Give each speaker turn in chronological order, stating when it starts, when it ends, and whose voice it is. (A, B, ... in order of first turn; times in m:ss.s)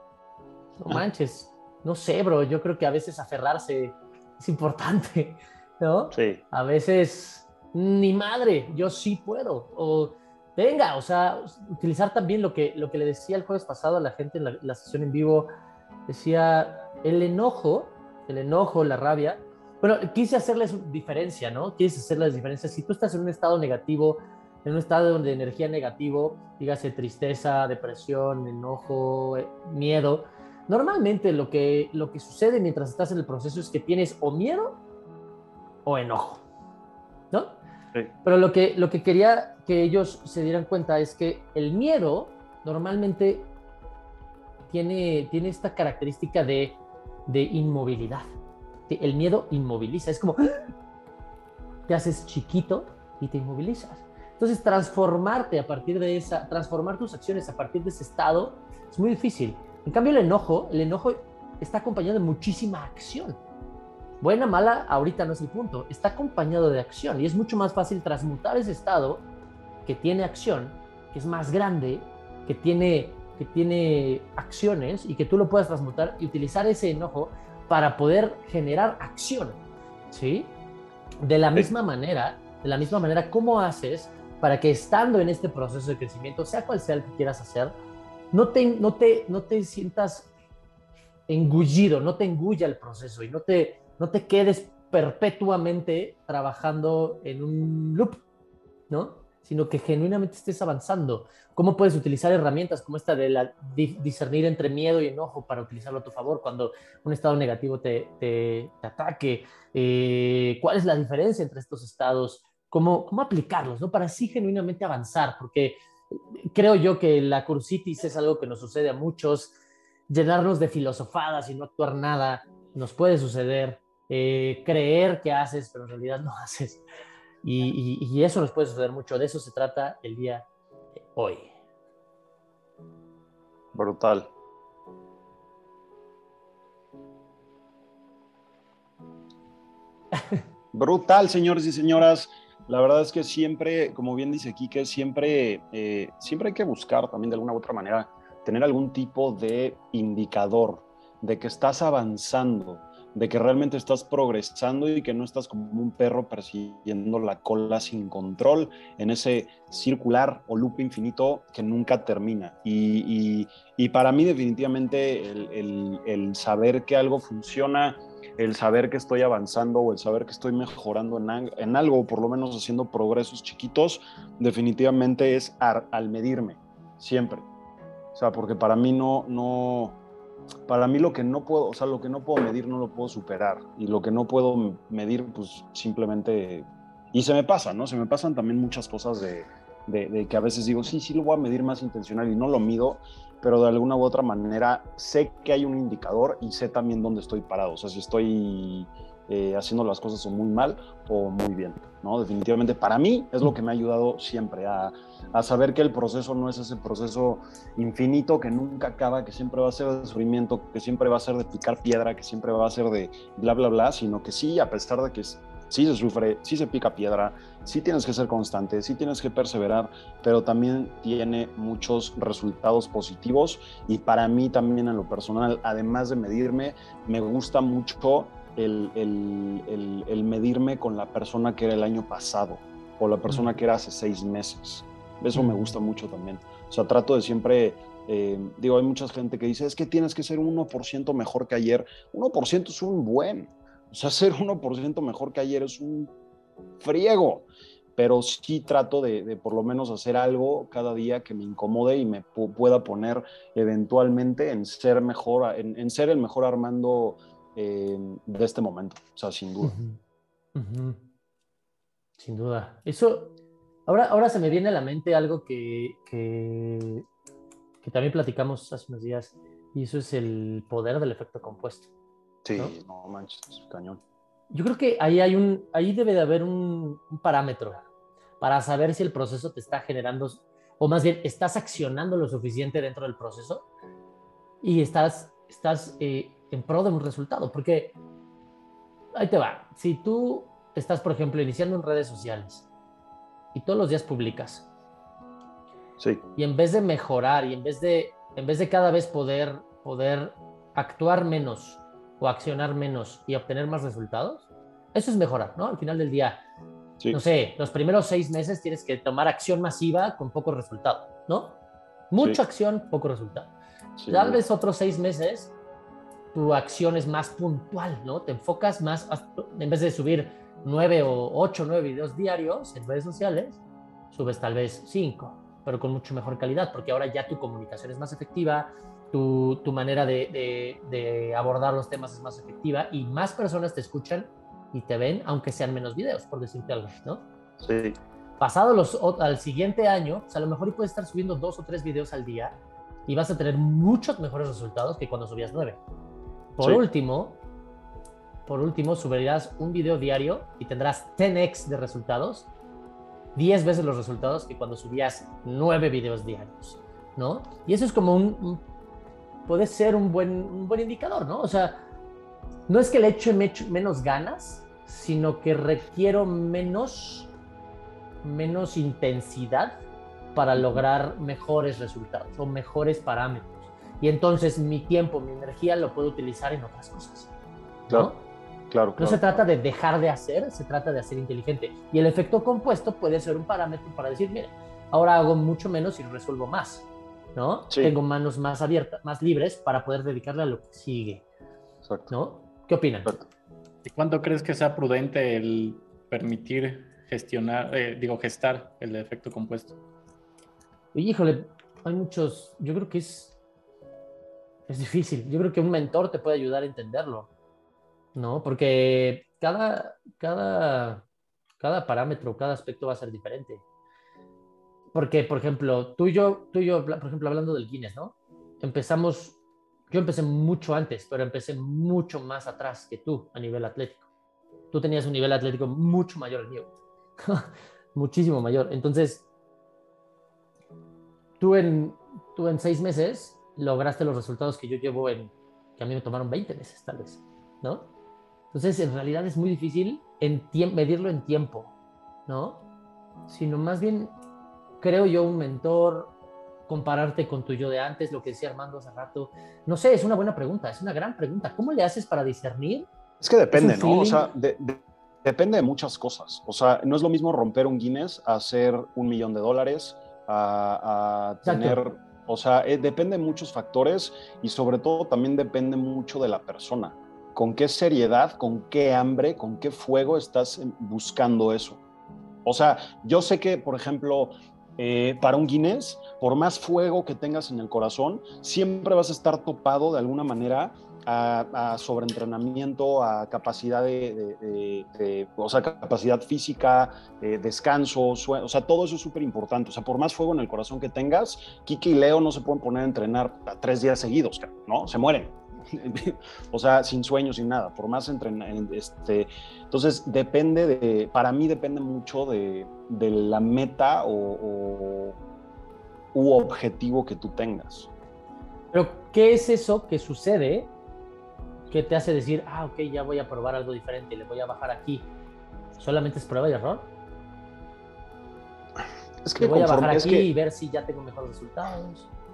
0:00.8-0:15.5 A
0:06.1-0:06.4 B
0:16.1-0:34.8 A
0:35.8-0:36.4 A
0:37.3-0:37.6 A
0:38.2-0:43.5 A
0:44.7-0:48.3 A
0:48.9-0:50.6 A
0:51.9-1:03.4 A
1:04.2-1:09.2 A
1:09.8-1:19.6 A
1:20.1-1:20.6 A
1:21.2-1:27.7 A
1:28.3-1:30.3 A
1:31.3-1:38.2 A
1:38.9-1:59.6 A
2:00.1-2:06.8 A
2:07.4-2:10.4 A
2:11.0-2:11.5 A
2:13.7-2:14.3 B
2:20.7-2:57.5 B
2:58.1-3:00.0 B
3:00.7-4:06.1 B
3:53.3-3:53.6 A
3:55.3-3:55.7 A
4:06.8-4:19.8 B
4:19.6-4:20.0 A
4:20.5-4:21.0 A
4:22.2-4:23.3 A
4:23.9-4:27.0 A
4:27.8-4:31.9 A
4:32.4-4:34.0 B
4:34.5-4:37.8 A
4:38.4-4:43.7 A
4:44.6-4:47.9 A
4:49.1-4:52.7 A
4:53.5-4:54.7 A
4:56.0-4:56.2 B
4:56.4-5:06.4 A
5:07.1-5:11.6 A
5:12.1-5:13.5 A
5:14.0-5:14.4 B
5:14.1-5:15.5 A
5:16.3-5:23.6 A
5:24.1-5:37.2 A
5:37.6-5:38.0 B
5:38.4-5:45.8 A
5:46.6-5:47.4 A
5:48.4-5:52.5 A
5:53.3-5:58.6 A
5:59.5-6:01.8 A
6:02.7-6:07.3 A
6:08.2-6:09.8 A
6:10.3-6:17.3 A
6:10.5-6:10.8 B
6:17.9-6:18.2 A
6:18.7-6:19.4 B
6:19.0-6:31.2 A
6:27.7-6:27.9 B
6:31.8-6:32.1 B
6:32.1-6:33.1 A
6:33.8-6:39.8 C
6:40.9-6:43.3 A
6:44.7-6:47.3 A
6:48.1-6:51.0 A
6:51.6-6:53.6 A
6:54.9-6:59.4 A
6:59.9-7:04.0 A
7:04.7-7:09.2 A
7:11.4-7:17.9 A
7:18.5-7:21.7 A
7:22.3-7:22.6 A
7:23.3-7:24.1 A
7:24.8-7:26.1 A
7:26.7-7:32.9 A
7:33.2-7:51.8 B
7:33.5-7:34.3 A
7:41.4-7:41.8 A
7:52.4-8:25.2 B
8:26.1-8:27.9 B
8:28.7-8:30.7 A
8:31.7-8:35.1 A
8:35.8-8:36.9 A
8:39.2-8:40.3 B
8:39.4-8:42.1 A